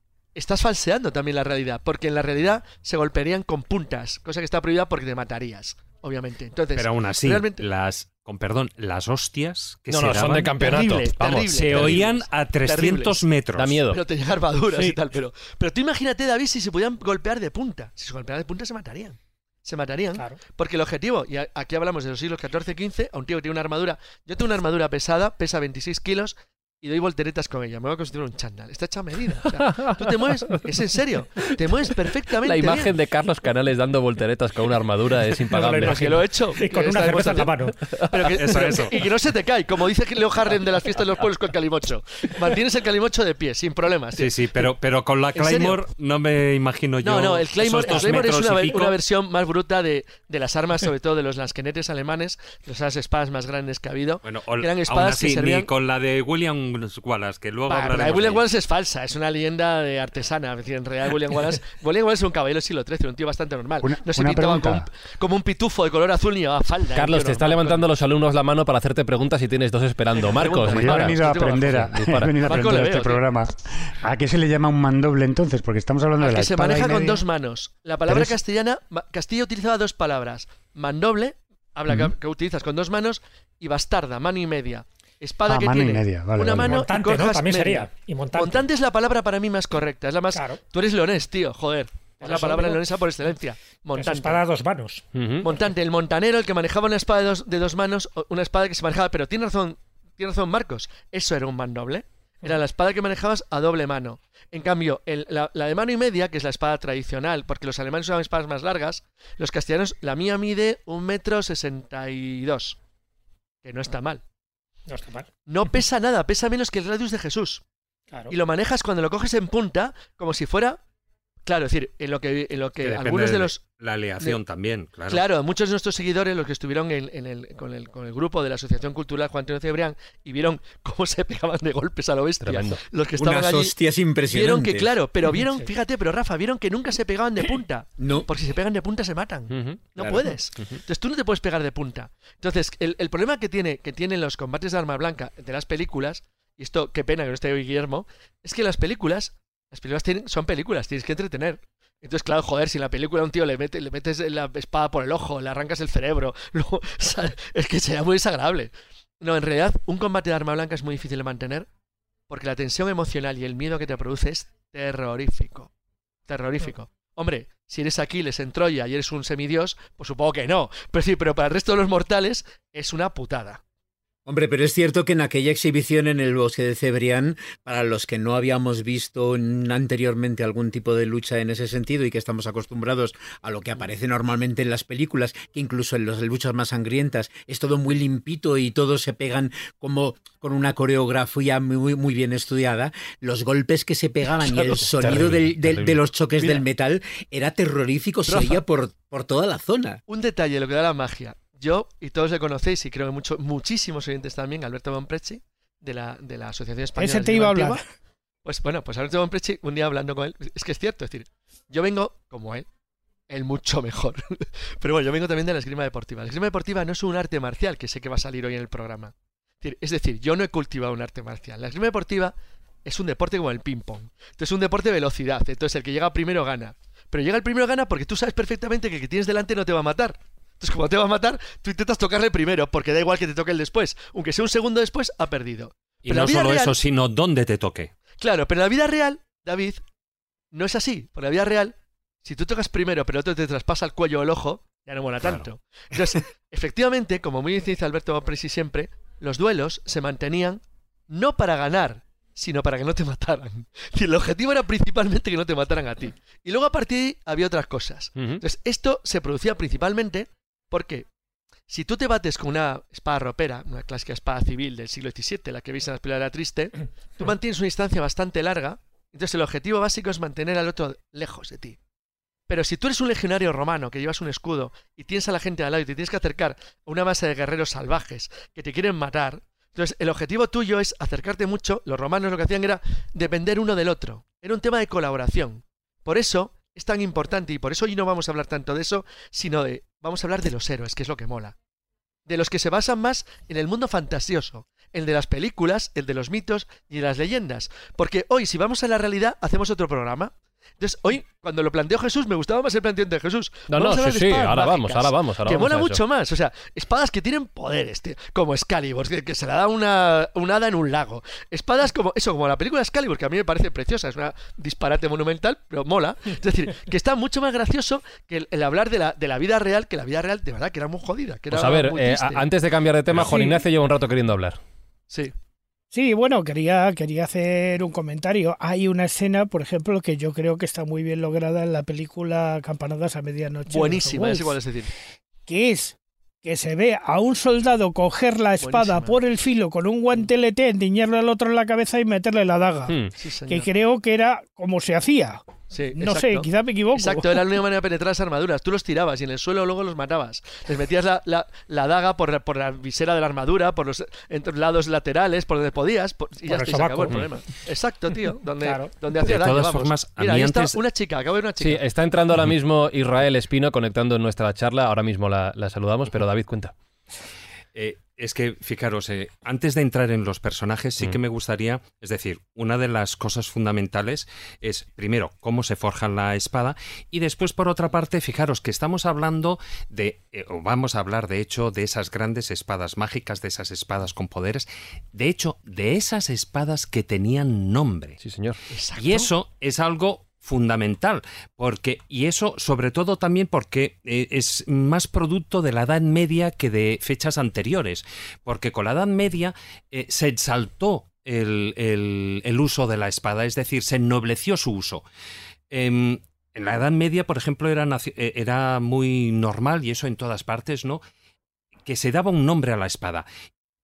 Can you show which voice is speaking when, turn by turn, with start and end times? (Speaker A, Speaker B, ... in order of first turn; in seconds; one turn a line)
Speaker A: 0.3-7.6
Speaker B: 6.7-10.6
Speaker C: 9.9-12.0
Speaker A: 10.4-13.2
Speaker B: 11.5-13.8
Speaker C: 13.6-14.1
Speaker A: 13.8-32.9
Speaker C: 14.7-15.0
Speaker C: 29.5-36.3
Speaker D: 35.5-37.8
Speaker A: 35.7-44.7
Speaker C: 38.0-38.3
Speaker B: 38.4-39.0
Speaker B: 44.2-49.0
Speaker A: 45.3-45.8
Speaker A: 47.0-55.7
Speaker D: 47.8-48.3
Speaker B: 54.2-58.4
Speaker A: 57.7-67.9
Speaker E: 63.8-64.9
Speaker C: 66.9-72.7
Speaker A: 70.1-73.2
Speaker E: 70.4-77.2
Speaker A: 76.2-94.4
Speaker E: 78.1-78.3
Speaker E: 85.4-86.8
Speaker D: 86.6-88.7
Speaker D: 90.3-90.6
Speaker D: 92.2-92.8
Speaker D: 94.0-95.0
Speaker C: 95.1-95.5
Speaker A: 95.4-112.8
Speaker A: 113.6-114.2
Speaker D: 114.9-115.3
Speaker A: 115.5-117.6
Speaker A: 118.3-120.8
Speaker A: 121.4-123.6
Speaker B: 122.8-125.2
Speaker A: 125.1-133.7
Speaker C: 132.4-132.8
Speaker F: 133.2-134.9
Speaker A: 134.3-161.7
Speaker F: 138.0-138.3
Speaker C: 139.5-139.8
Speaker F: 140.0-140.3
Speaker A: 162.3-165.7
Speaker A: 166.3-173.6
Speaker F: 174.2-200.0
Speaker C: 194.8-196.0
Speaker A: 196.4-196.6
Speaker A: 198.3-198.6
Speaker A: 200.1-207.8
Speaker G: 206.9-207.8
Speaker A: 208.4-212.7
Speaker A: 213.3-236.8
Speaker B: 236.0-237.9
Speaker A: 238.2-239.8
Speaker A: 240.5-261.1
Speaker C: 258.1-258.4
Speaker A: 261.7-271.8
Speaker A: 272.5-291.6
Speaker A: 292.3-322.5
Speaker C: 303.7-306.0
Speaker C: 321.5-324.6
Speaker G: 323.3-323.6
Speaker G: 325.9-334.6
Speaker A: 333.7-334.9
Speaker G: 335.5-347.5
Speaker A: 338.6-339.2
Speaker C: 342.9-343.1
Speaker A: 343.2-343.7
Speaker A: 345.7-361.8
Speaker D: 356.4-357.3
Speaker D: 358.6-358.9
Speaker B: 359.2-360.8
Speaker C: 361.6-366.7
Speaker B: 367.7-388.2
Speaker C: 388.2-388.6
Speaker A: 388.7-389.3
Speaker B: 389.0-405.0
Speaker B: 405.7-411.0
Speaker B: 411.8-413.3